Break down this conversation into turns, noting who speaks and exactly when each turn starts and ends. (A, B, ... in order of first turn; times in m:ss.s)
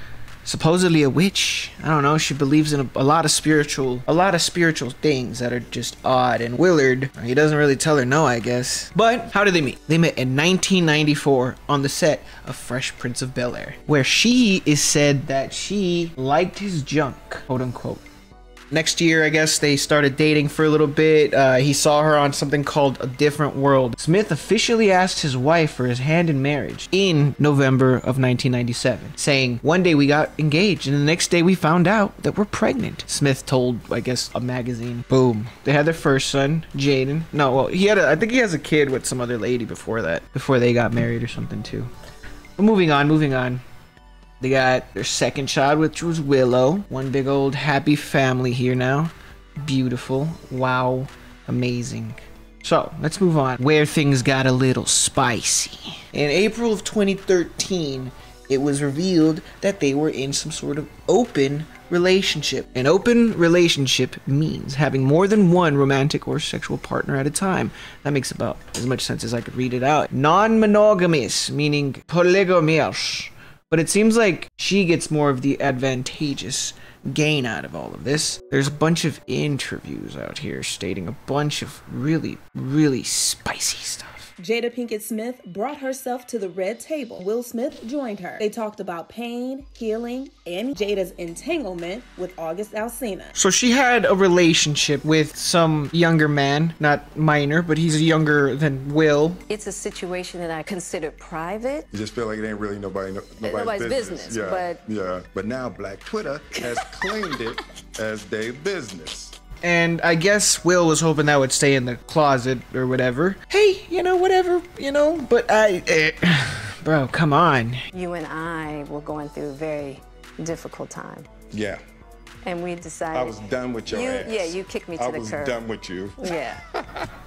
0:00.4-0:18.0 A
0:18.7-0:41.9 A
0:42.6-0:43.6 A
0:44.4-1:24.3 A
1:24.4-1:33.3 B
1:33.3-1:39.4 A
1:39.5-1:41.9 C
1:41.9-1:49.3 D
1:43.4-1:44.8 C
1:46.6-1:47.4 C
1:49.6-1:57.8 A
1:57.9-2:01.3 C
2:01.5-2:01.8 D
2:02.4-2:03.4 C
2:03.1-2:06.2 D
2:03.9-2:05.6 C
2:06.2-2:06.6 C